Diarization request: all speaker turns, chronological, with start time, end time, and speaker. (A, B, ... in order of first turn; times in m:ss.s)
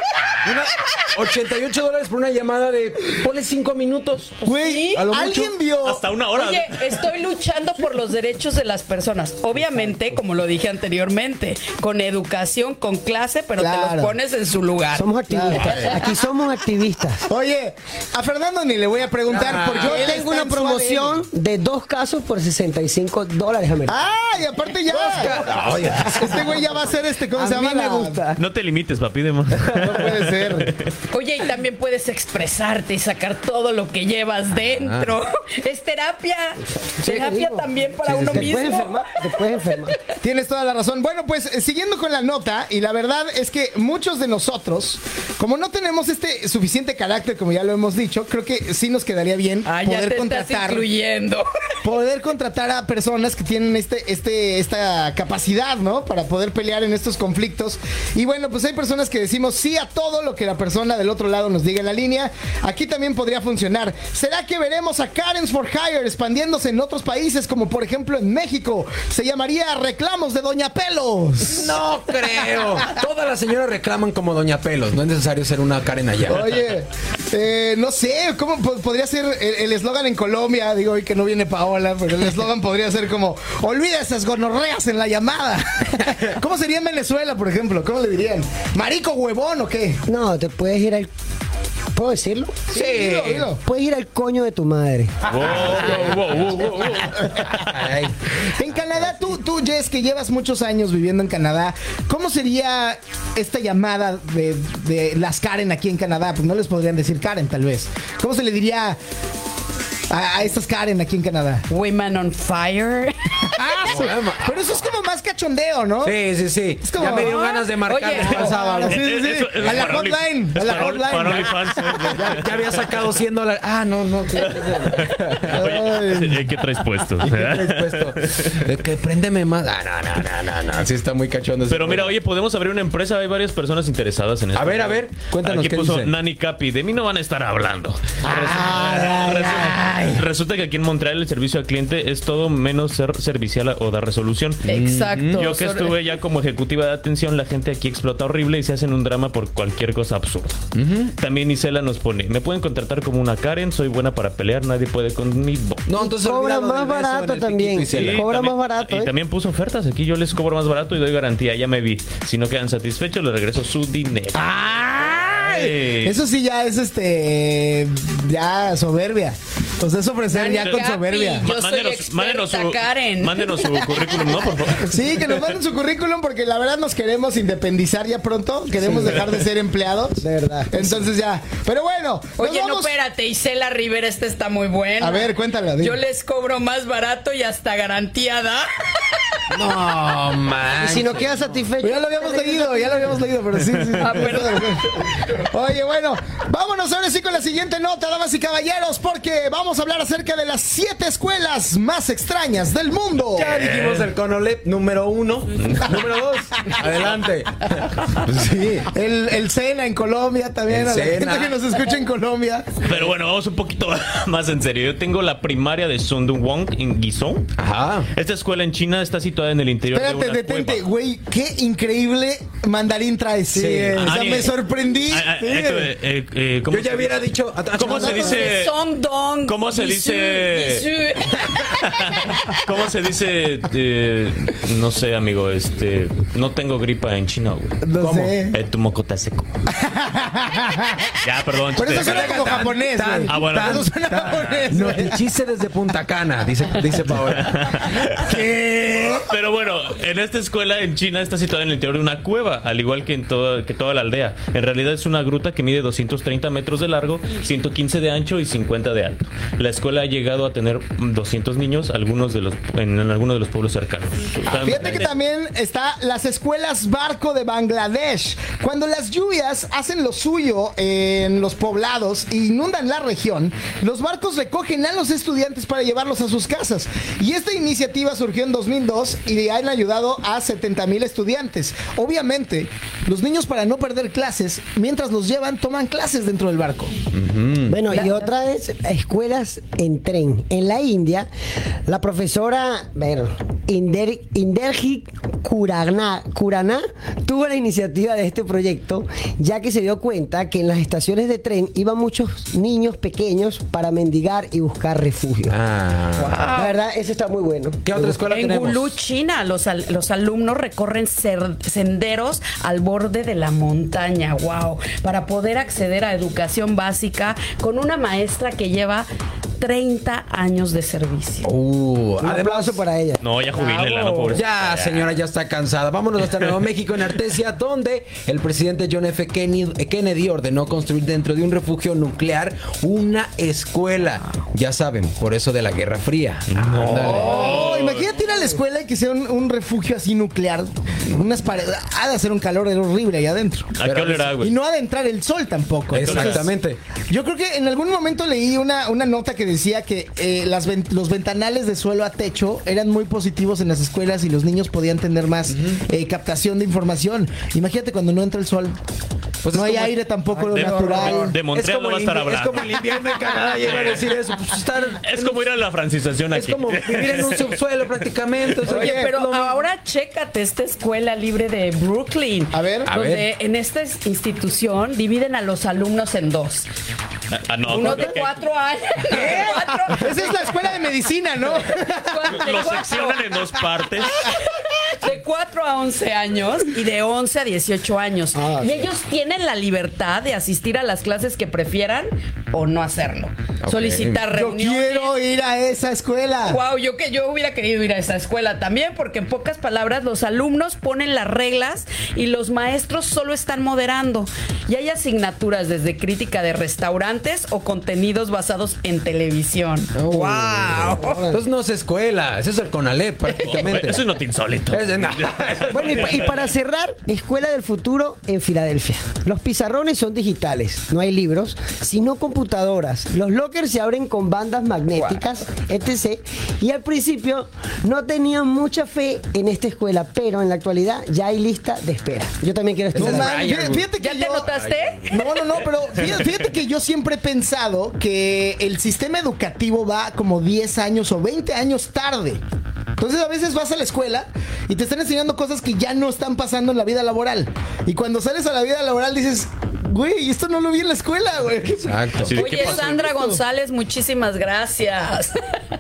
0:00.4-0:05.6 A
0:04.4-0:05.1 B
0:04.4-0:06.0 C
0:05.8-0:07.0 D
0:06.3-0:15.8 B
0:13.6-0:14.2 C
0:15.0-0:17.3 E
0:15.3-0:16.0 C
0:17.3-0:21.2 C
0:19.3-0:20.0 A
0:19.7-0:24.0 E
0:23.9-0:25.4 C
0:24.9-0:26.6 A
0:26.0-0:28.3 C
0:27.3-0:28.4 E
0:28.4-0:30.8 D
0:29.6-0:30.7 C
0:31.1-0:39.9 B
0:34.8-0:35.2 A
0:37.0-0:40.0 E
0:40.2-0:50.9 C
0:49.7-0:51.5 B
0:51.8-1:11.7 C
1:11.4-1:16.6 A
1:16.3-1:30.0 C
1:30.1-1:31.1 E
1:32.0-1:32.7 E
1:32.7-1:33.6 C
1:32.7-1:33.5 A
1:33.6-1:35.2 E
1:35.3-1:37.8 D
1:35.3-1:36.9 A
1:37.4-1:39.3 A
1:38.5-1:49.0 C
1:50.1-1:51.6 C
1:51.7-1:53.2 B
1:53.4-1:56.2 C
1:53.8-1:54.6 A
1:56.0-1:59.0 A
1:56.8-1:57.4 C
1:57.0-1:58.8 B
1:58.2-2:02.2 C
1:58.9-2:02.8 D
1:59.6-2:00.0 A
2:02.1-2:06.0 A
2:04.4-2:08.6 D
2:05.5-2:06.4 C
2:07.2-2:12.2 A
2:11.7-2:24.6 D
2:14.6-2:16.1 A
2:18.2-2:20.1 A
2:24.6-2:25.5 A
2:24.6-2:25.9 B
2:25.3-2:30.6 D
2:30.8-2:31.1 A
2:31.2-2:35.8 D
2:35.9-2:38.3 A
2:36.0-2:39.1 E
2:37.9-2:44.6 D
2:44.3-2:51.5 C
2:45.2-2:46.2 D
2:50.3-2:54.3 B
2:50.5-2:55.4 D
2:54.8-3:02.9 C
2:58.8-2:59.2 E
3:00.2-3:01.1 E
3:02.4-3:09.2 B
3:05.0-3:06.0 C
3:09.5-3:11.5 A
3:10.8-3:13.0 E
3:11.8-3:23.6 C
3:14.0-3:14.8 B
3:23.3-3:28.9 A
3:23.5-3:24.1 D
3:25.6-3:26.0 D
3:28.9-3:32.8 C
3:30.7-3:31.6 A
3:32.8-3:37.5 D
3:37.6-3:38.1 A
3:38.1-3:40.8 D
3:39.9-3:45.9 C
3:43.5-3:44.4 A
3:44.0-3:48.8 D
3:46.7-3:48.5 A
3:47.8-3:52.2 B
3:49.4-3:50.9 D
3:51.7-3:59.5 D
3:57.8-3:58.6 C
3:58.0-3:58.4 A
3:59.7-4:01.2 C
4:01.2-4:02.7 D
4:01.8-4:05.2 C
4:01.8-4:08.0 A
4:03.3-4:04.7 D
4:07.1-4:08.5 D
4:08.2-4:09.3 C
4:09.2-4:25.2 D
4:24.5-4:46.9 C
4:47.1-4:47.8 A
4:47.7-4:51.3 E
4:47.9-4:48.2 B
4:51.9-5:05.6 E
5:05.5-5:06.5 A
5:06.2-5:06.8 B
5:06.5-5:08.2 E
5:07.8-5:08.9 A
5:08.3-5:19.1 B
5:19.6-5:21.5 B
5:21.4-5:22.8 A
5:22.2-5:23.2 E
5:23.2-5:25.1 D
5:23.6-5:24.3 B
5:24.3-5:37.6 A
5:36.5-5:38.1 D
5:37.0-5:43.7 C
5:43.8-5:44.6 D
5:43.8-5:44.3 A
5:44.4-5:46.5 C
5:45.9-5:46.8 A
5:46.0-5:46.4 D
5:47.1-5:58.8 C
5:55.5-5:55.8 A
5:59.4-6:05.4 A
5:59.5-6:01.4 C
6:00.6-6:02.8 D
6:03.6-6:04.1 D
6:05.0-6:07.6 D
6:06.3-6:09.6 A
6:08.7-6:09.1 C
6:08.7-6:16.7 B
6:12.5-6:12.9 C
6:12.9-6:13.3 A
6:17.3-6:18.4 D
6:17.7-6:20.3 B
6:19.1-6:22.4 C
6:22.0-6:23.2 B
6:22.3-6:24.3 D
6:25.0-6:35.2 B
6:28.4-6:28.9 E
6:33.6-6:34.2 A
6:34.3-6:36.6 C
6:36.5-6:51.2 B
6:50.0-6:54.0 A
6:51.0-6:51.4 E
6:53.4-6:56.4 D
6:54.7-6:56.3 A
6:55.7-7:13.4 E
7:12.9-7:13.9 A
7:13.0-7:14.5 C
7:14.0-7:15.4 B
7:14.5-7:15.1 A
7:15.1-7:22.4 C
7:23.0-7:33.4 C
7:31.8-7:32.4 A
7:32.2-7:33.1 D
7:32.3-7:35.6 B